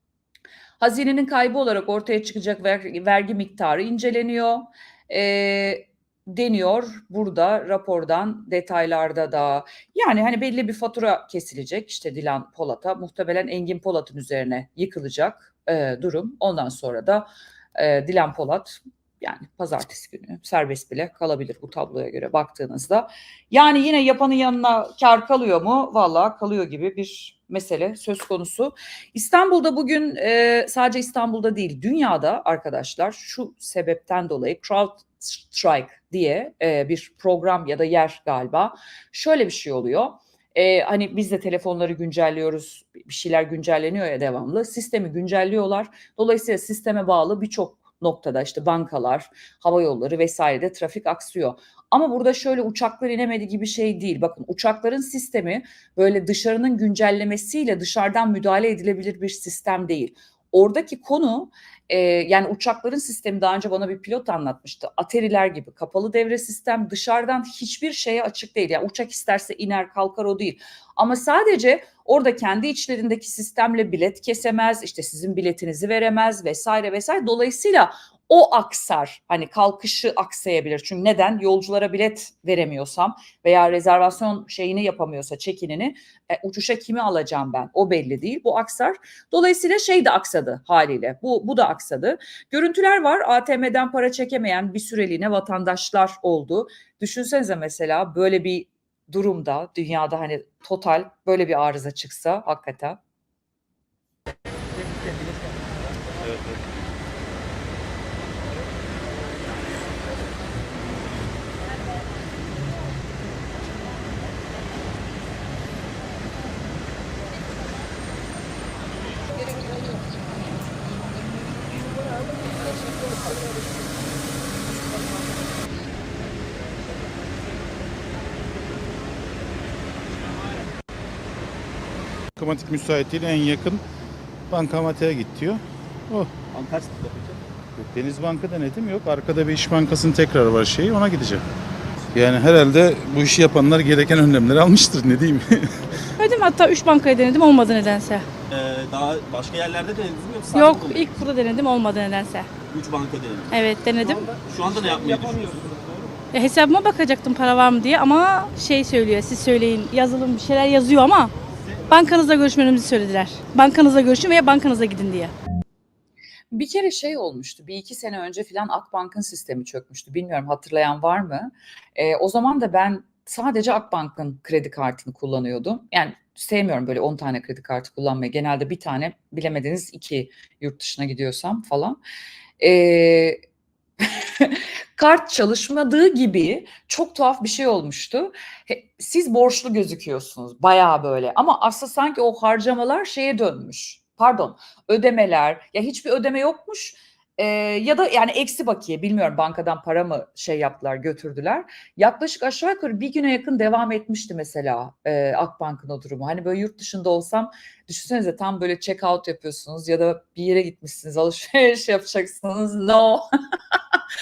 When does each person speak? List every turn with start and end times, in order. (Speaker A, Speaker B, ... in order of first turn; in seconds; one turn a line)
Speaker A: 0.8-103.0
Speaker B: 132.4-133.8
Speaker B: 134.5-136.3
Speaker C: 136.5-137.4
Speaker B: 137.8-141.4
Speaker B: 142.1-145.8
Speaker D: 146.2-148.2
Speaker C: 148.5-151.1
Speaker D: 150.5-152.5
Speaker C: 152.7-153.6
Speaker D: 153.5-154.3
Speaker C: 154.3-156.0
Speaker D: 156.3-161.3
Speaker D: 161.9-165.3
Speaker A: 166.5-182.0
Speaker A: 182.6-183.4
Speaker A: 184.0-213.2